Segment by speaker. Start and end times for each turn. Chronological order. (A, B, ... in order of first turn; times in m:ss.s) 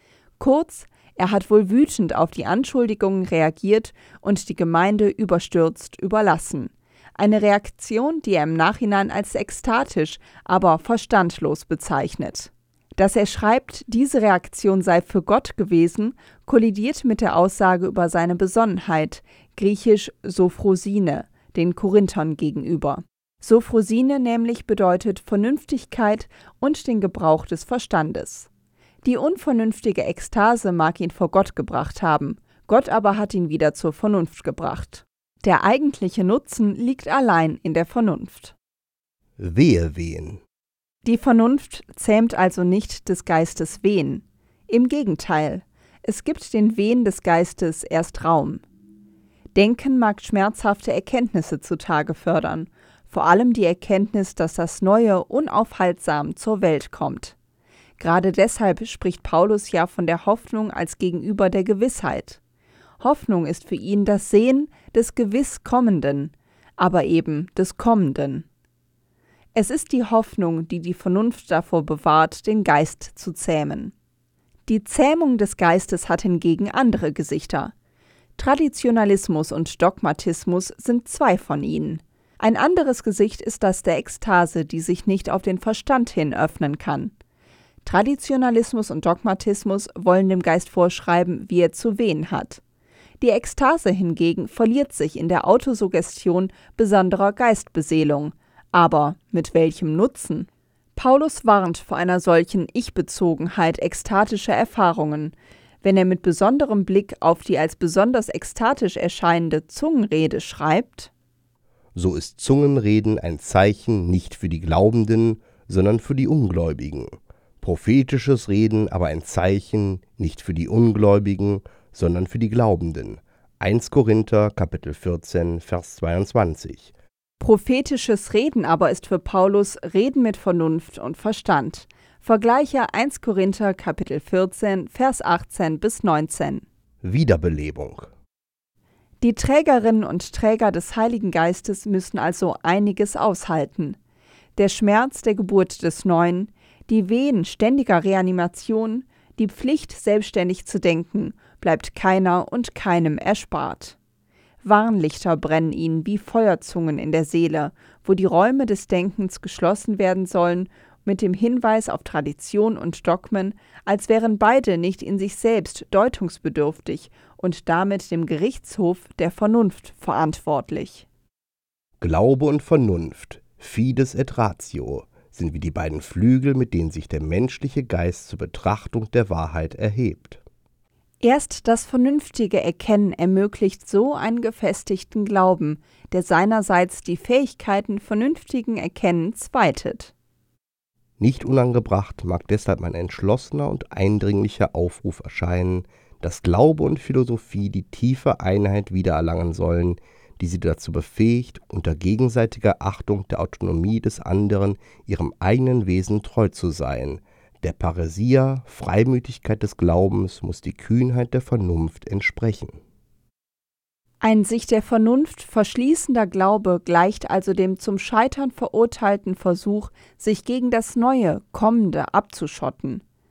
0:00.4-0:28.5 A
0:29.0-0:38.6 A
0:39.4-0:40.4 B
0:41.0-0:48.6 A
0:49.6-0:57.4 A
0:58.0-1:02.4 A
1:03.0-1:08.4 A
1:09.6-1:13.9 A
1:14.7-1:17.7 A
1:18.4-1:27.1 A
1:27.8-1:32.6 A
1:33.2-1:51.1 A
1:52.0-2:06.9 B
2:07.4-2:16.6 A
2:17.0-2:18.1 B
2:19.2-2:24.0 A
2:24.6-2:34.0 A
2:34.6-2:51.0 A
2:52.0-3:00.4 B
3:01.2-3:10.1 A
3:11.2-3:32.8 B
3:34.2-3:43.0 A